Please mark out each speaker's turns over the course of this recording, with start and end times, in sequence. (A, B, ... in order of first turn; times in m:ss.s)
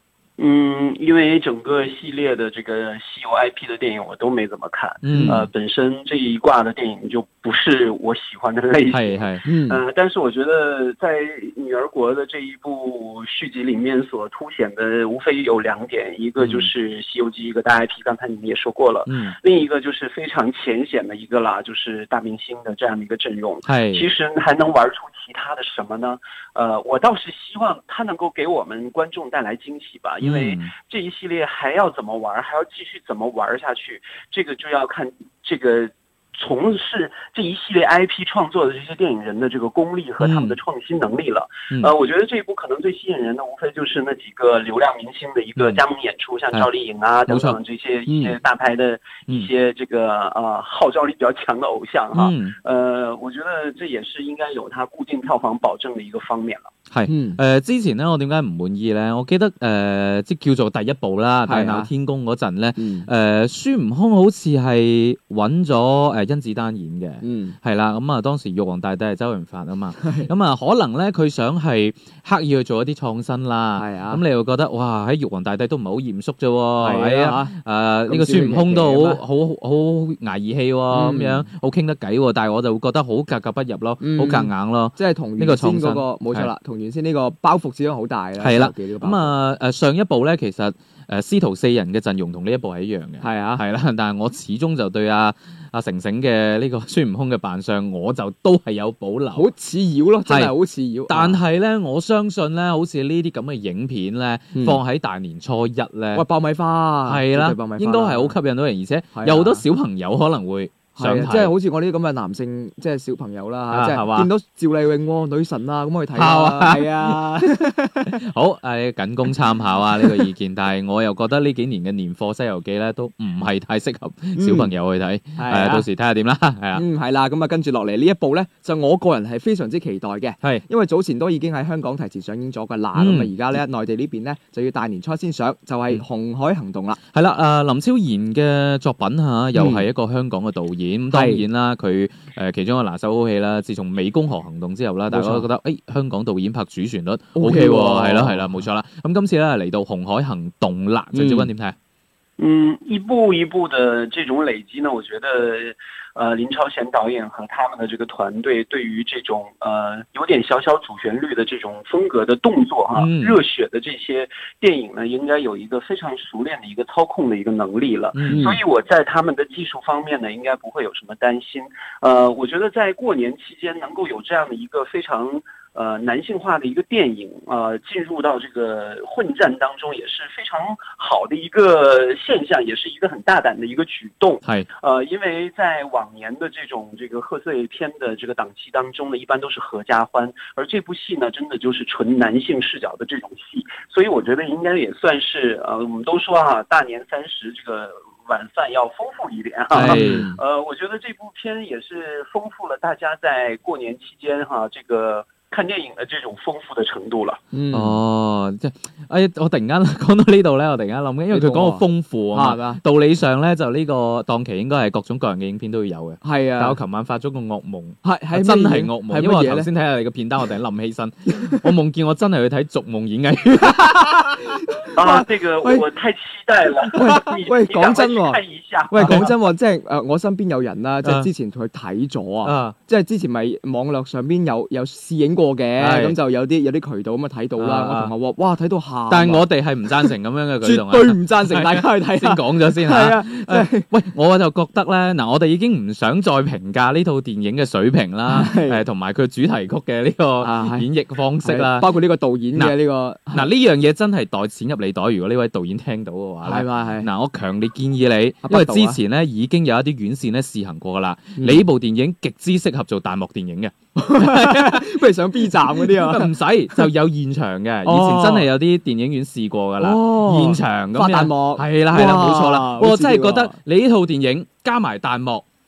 0:00.4-0:56.7 A
0:05.0-0:05.5 B
0:05.1-0:05.4 C
0:08.9-0:09.4 B
0:09.4-0:09.8 C
0:16.4-0:16.7 B
0:19.1-0:19.4 B
0:23.6-0:24.1 B
0:30.2-0:30.7 B
0:40.2-0:40.6 B
0:45.6-0:45.8 B
0:47.3-0:47.6 B
0:48.1-0:48.4 C
0:52.1-0:52.6 B
0:56.9-1:26.5 B
0:57.1-0:57.4 C
1:01.5-1:01.9 C
1:02.8-1:03.1 C
1:07.2-1:07.6 C
1:10.0-1:10.3 C
1:13.8-1:14.2 C
1:16.8-1:17.5 C
1:18.1-1:19.2 C
1:20.9-1:21.5 C
1:24.0-1:29.4 C
1:28.4-1:39.5 B
1:33.2-1:33.6 C
1:39.3-1:41.4 C
1:40.3-1:40.5 B
1:41.1-1:46.2 B
1:44.6-1:44.8 C
1:46.1-1:48.4 C
1:47.0-1:51.5 B
1:49.2-1:49.6 C
1:51.0-1:58.1 C
1:53.7-1:54.3 B
1:56.1-2:06.8 B
2:00.0-2:00.3 C
2:04.4-2:04.7 C
2:05.4-2:05.9 C
2:06.7-2:17.0 C
2:13.0-2:13.4 B
2:17.1-2:31.8 B
2:19.6-2:19.8 C
2:21.1-2:21.4 C
2:25.1-2:25.5 C
2:27.4-2:28.6 C
2:31.1-2:31.5 C
2:32.4-3:27.4 A
2:42.9-2:43.4 B
2:48.1-2:48.5 B
2:48.3-2:48.6 C
3:19.7-3:20.3 C
3:19.7-3:20.4 B
3:27.5-3:28.0 C
3:27.7-3:44.6 B
3:31.3-3:32.8 C
3:36.2-3:36.8 C
3:38.0-3:39.7 C
3:44.8-3:45.8 C
3:45.0-3:49.2 A
3:46.9-3:59.5 C
3:49.0-3:49.3 B
3:51.0-3:51.3 B
3:52.4-3:52.8 B
3:55.8-3:56.2 B
3:57.6-3:58.1 B
3:59.1-4:11.9 B
4:00.6-4:03.9 C
4:08.3-4:08.8 C
4:10.4-4:10.9 C
4:11.4-4:13.5 C
4:13.3-4:35.4 B
4:16.4-4:17.1 C
4:18.4-4:19.0 C
4:21.4-4:21.7 C
4:24.0-4:26.9 C
4:27.8-4:28.5 C
4:29.8-4:33.6 C